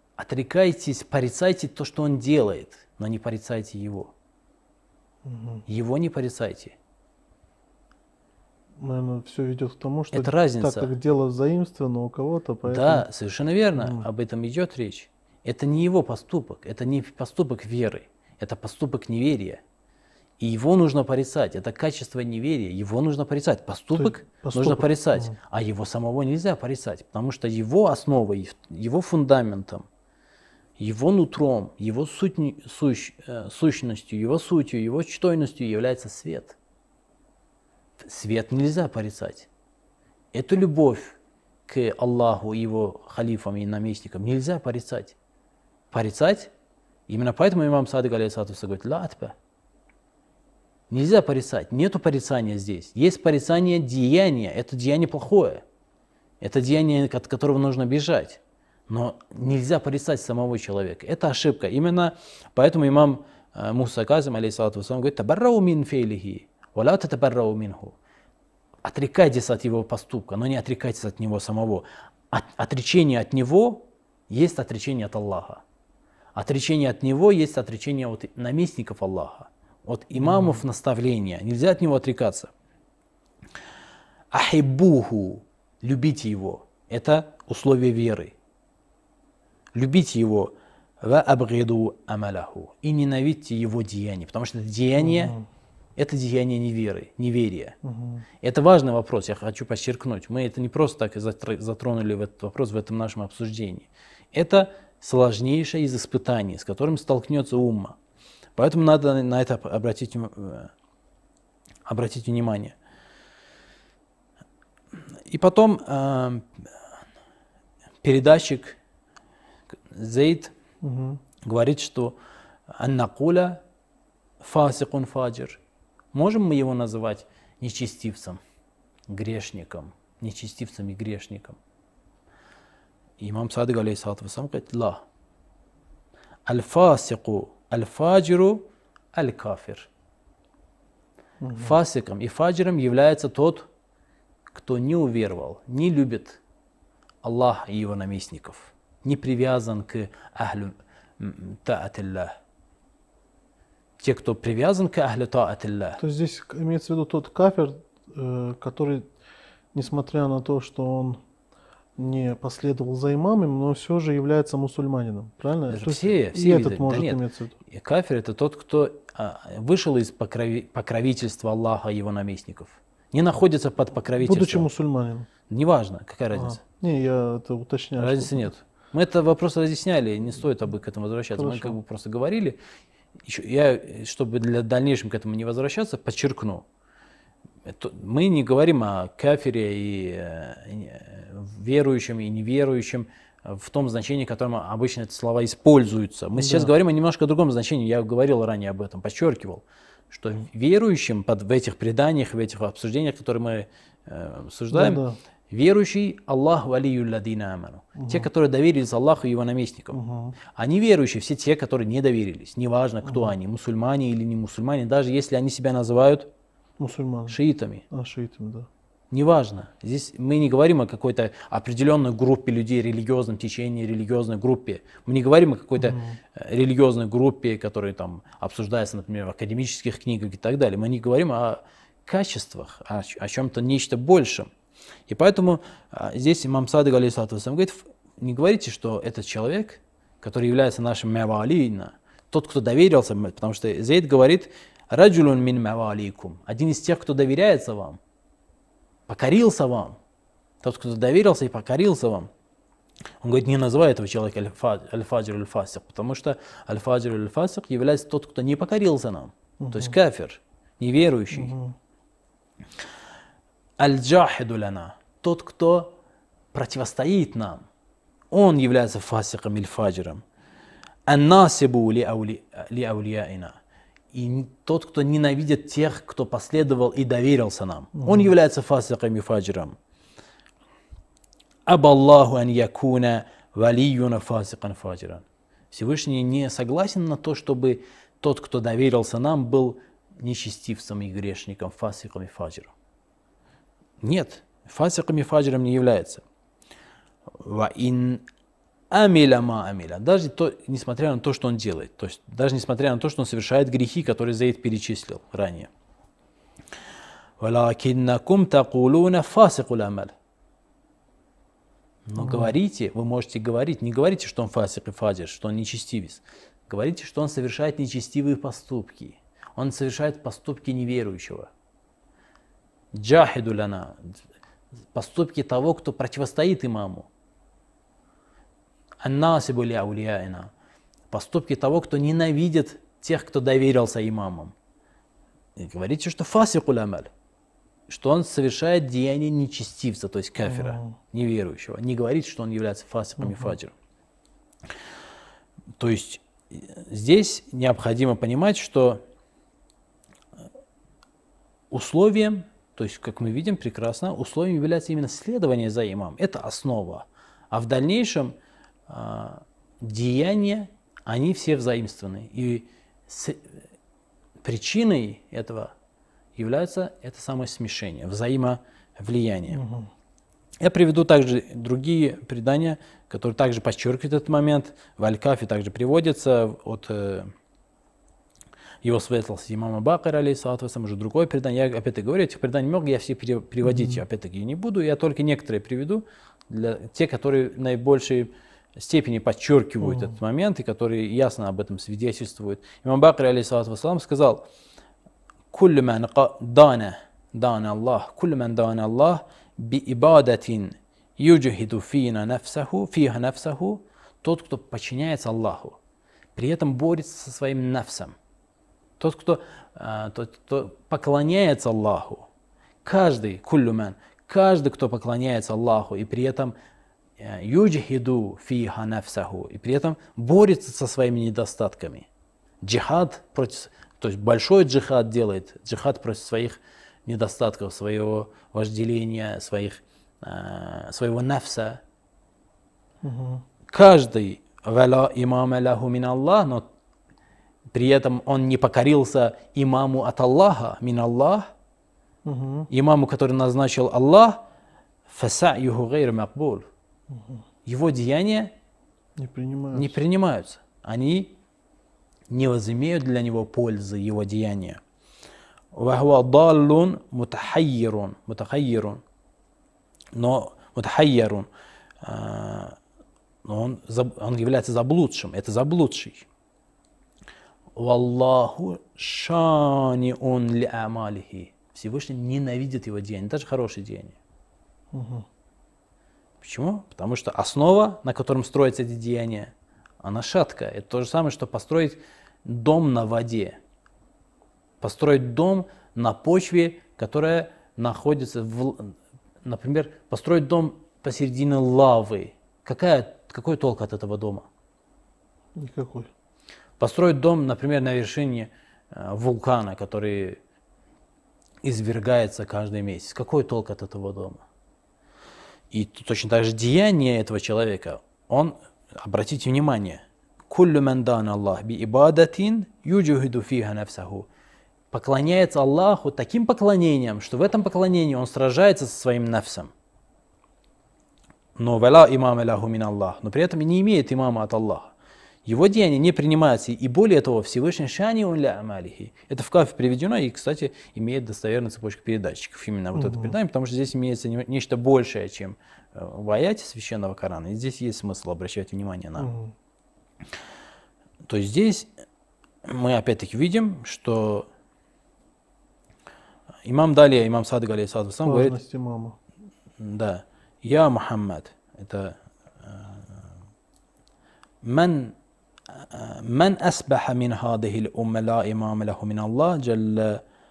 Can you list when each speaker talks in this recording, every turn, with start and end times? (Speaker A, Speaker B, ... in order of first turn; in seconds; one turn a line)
Speaker A: 0.2-4.1
Speaker B: 5.2-5.6
Speaker A: 5.7-6.8
Speaker B: 8.8-13.1
Speaker A: 10.1-10.9
Speaker A: 12.6-19.6
Speaker B: 13.8-14.1
Speaker A: 20.4-29.9
Speaker B: 23.9-25.4
Speaker A: 30.8-36.6
Speaker A: 38.0-39.5
Speaker A: 40.3-45.1
Speaker A: 45.9-46.5
Speaker A: 47.1-49.3
Speaker A: 50.9-55.6
Speaker A: 56.4-68.0
Speaker A: 68.8-75.6
Speaker A: 76.3-82.5
Speaker B: 80.1-80.6
Speaker A: 84.3-88.3
Speaker A: 89.7-95.4
Speaker B: 95.0-95.5
Speaker A: 96.0-97.8
Speaker B: 97.8-98.2
Speaker A: 98.4-108.0
Speaker A: 108.6-110.7
Speaker A: 111.8-112.7
Speaker A: 115.3-116.5
Speaker A: 118.0-118.8
Speaker A: 119.9-120.5
Speaker B: 120.8-121.2
Speaker A: 121.4-122.2
Speaker A: 122.8-123.6
Speaker A: 124.4-125.6
Speaker A: 126.1-128.4
Speaker A: 129.1-131.6
Speaker A: 133.2-135.0
Speaker A: 136.4-139.9
Speaker B: 141.4-141.8
Speaker A: 141.5-143.7
Speaker A: 144.5-146.4
Speaker A: 147.2-152.3
Speaker A: 154.0-156.0
Speaker B: 156.0-159.1
Speaker B: 159.7-161.2
Speaker B: 162.0-167.5
Speaker A: 165.7-174.7
Speaker B: 174.2-175.3
Speaker A: 175.5-176.6
Speaker B: 176.3-178.5
Speaker A: 178.0-182.6
Speaker B: 181.3-181.8
Speaker A: 183.2-186.7
Speaker A: 187.7-210.0
Speaker B: 196.4-196.7
Speaker B: 204.7-205.2
Speaker B: 207.9-208.3
Speaker B: 209.9-210.3
Speaker A: 210.5-216.3
Speaker B: 213.0-213.3
Speaker B: 216.8-217.4
Speaker A: 217.3-217.8
Speaker B: 217.9-218.7
Speaker A: 219.1-234.5
Speaker B: 225.8-226.2
Speaker A: 235.1-248.0
Speaker A: 249.1-250.0
Speaker A: 250.6-252.3
Speaker A: 253.2-261.5
Speaker B: 259.6-260.0
Speaker B: 261.3-261.8
Speaker A: 263.8-265.9
Speaker A: 266.5-267.6
Speaker A: 268.3-270.2
Speaker A: 271.1-273.6
Speaker A: 274.1-279.8
Speaker B: 278.0-278.3
Speaker A: 281.7-292.7
Speaker A: 294.0-296.2
Speaker A: 297.4-298.2
Speaker A: 298.9-305.7
Speaker A: 307.4-310.1
Speaker A: 312.1-321.5
Speaker B: 312.2-312.5
Speaker A: 322.9-324.1
Speaker A: 324.9-327.1
Speaker A: 329.0-330.5
Speaker A: 331.1-334.5
Speaker A: 335.6-337.1
Speaker A: 337.9-343.7
Speaker B: 340.4-340.9
Speaker B: 343.2-343.5
Speaker A: 345.8-349.0
Speaker A: 351.7-358.3
Speaker A: 358.9-363.6
Speaker A: 364.4-365.7
Speaker A: 366.4-369.6
Speaker B: 369.5-369.9
Speaker A: 370.6-377.3
Speaker A: 378.8-394.4
Speaker B: 383.6-384.0
Speaker B: 389.8-390.1
Speaker A: 395.5-405.8
Speaker A: 406.4-408.1
Speaker A: 409.0-412.3
Speaker A: 412.8-416.5
Speaker A: 417.2-422.1
Speaker A: 422.6-431.8
Speaker B: 433.0-433.4
Speaker A: 433.7-436.6
Speaker A: 437.7-441.5
Speaker B: 442.2-442.7
Speaker A: 442.7-444.4
Speaker A: 445.1-446.6
Speaker B: 447.1-447.4
Speaker A: 447.6-448.5
Speaker B: 449.2-450.0
Speaker A: 449.7-451.4
Speaker A: 452.3-454.8
Speaker A: 455.7-459.0
Speaker A: 460.1-461.5
Speaker A: 462.0-462.8
Speaker A: 463.4-466.2
Speaker A: 467.8-474.2
Speaker B: 474.9-475.2
Speaker A: 476.4-483.6
Speaker A: 484.8-494.5
Speaker B: 495.6-496.1
Speaker A: 496.8-500.4
Speaker A: 501.6-504.4
Speaker A: 505.7-514.3
Speaker A: 514.9-519.7
Speaker A: 521.6-524.9
Speaker A: 525.5-539.3
Speaker B: 532.9-533.3
Speaker B: 539.2-539.5
Speaker A: 541.3-541.9
Speaker A: 542.6-544.5
Speaker A: 546.6-548.6
Speaker B: 548.2-549.1
Speaker A: 549.8-553.1
Speaker A: 554.6-555.1
Speaker A: 555.7-560.2